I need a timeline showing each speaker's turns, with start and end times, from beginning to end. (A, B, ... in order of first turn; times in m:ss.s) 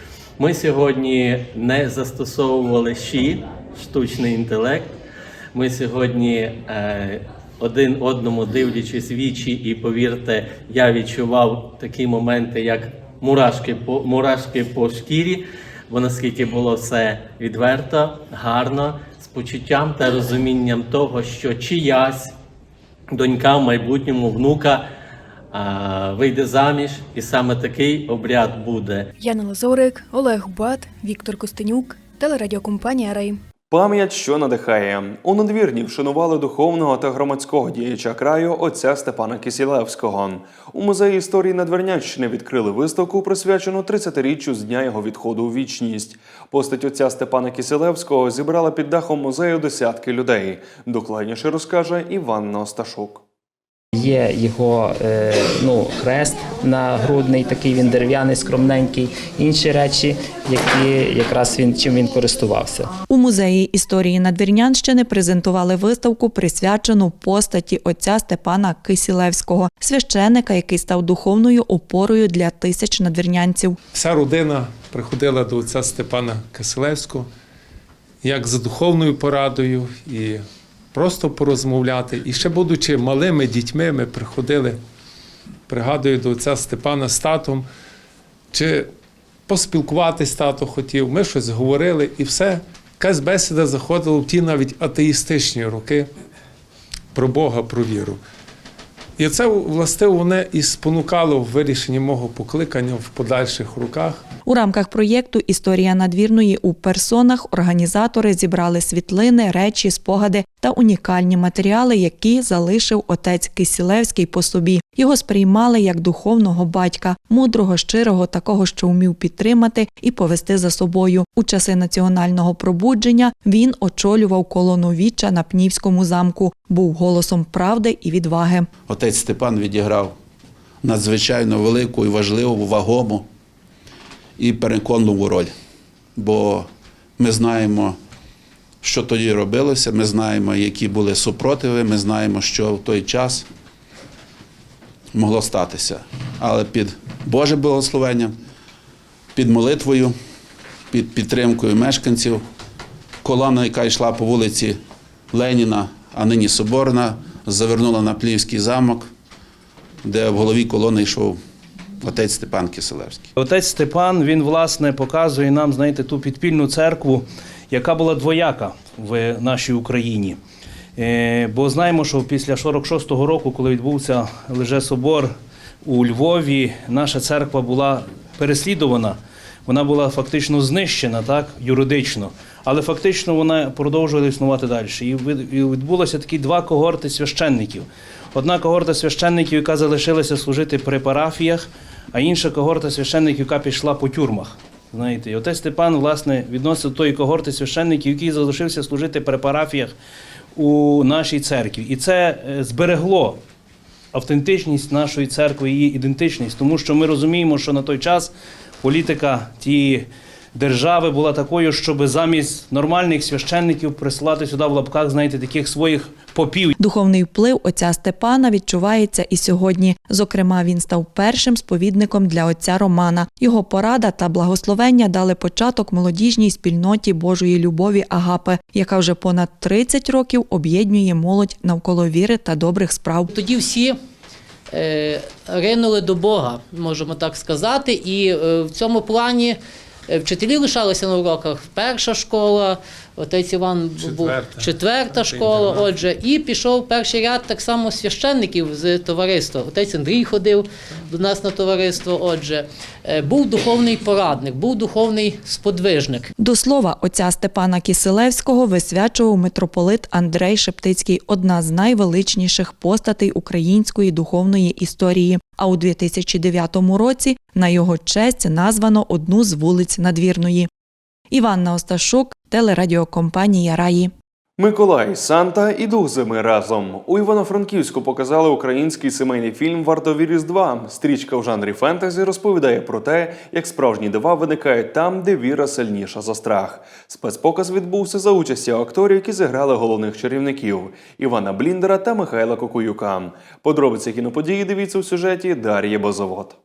0:00.4-0:04.9 A
0:05.5-0:22.3 A
0:23.1-0:24.8 A
0:25.5-0:29.1 A
0:29.2-0:33.4 B
0:33.7-0:53.2 C
0:54.0-1:02.9 D
1:03.1-1:13.8 E
1:13.9-1:17.3 F
1:18.2-1:24.8 F
1:25.7-1:27.7 F
1:28.5-1:28.9 F
1:29.5-1:36.1 F
1:37.1-1:38.2 F
1:39.2-1:44.2 F
1:44.5-2:08.7 E
2:08.9-2:10.2 G
2:10.8-2:13.3 G
2:14.4-2:15.5 G
2:16.2-2:18.0 G
2:18.8-2:23.5 G
2:25.1-2:28.4 G
2:29.4-2:30.2 G
2:30.9-2:32.4 G
2:33.2-2:34.8 G
2:35.3-2:39.1 G
2:40.0-2:41.4 G
2:42.0-2:43.3 G
2:43.4-2:50.4 H
2:51.0-3:20.0 H
3:20.6-3:23.4 H
3:24.1-3:28.3 H
3:28.8-3:36.8 H
3:36.8-3:53.3 E
3:53.3-3:54.0 I
3:54.7-4:16.3 I
4:04.0-4:05.9 F
4:16.4-4:30.7 E
4:31.3-4:34.1 E
4:34.6-4:56.6 C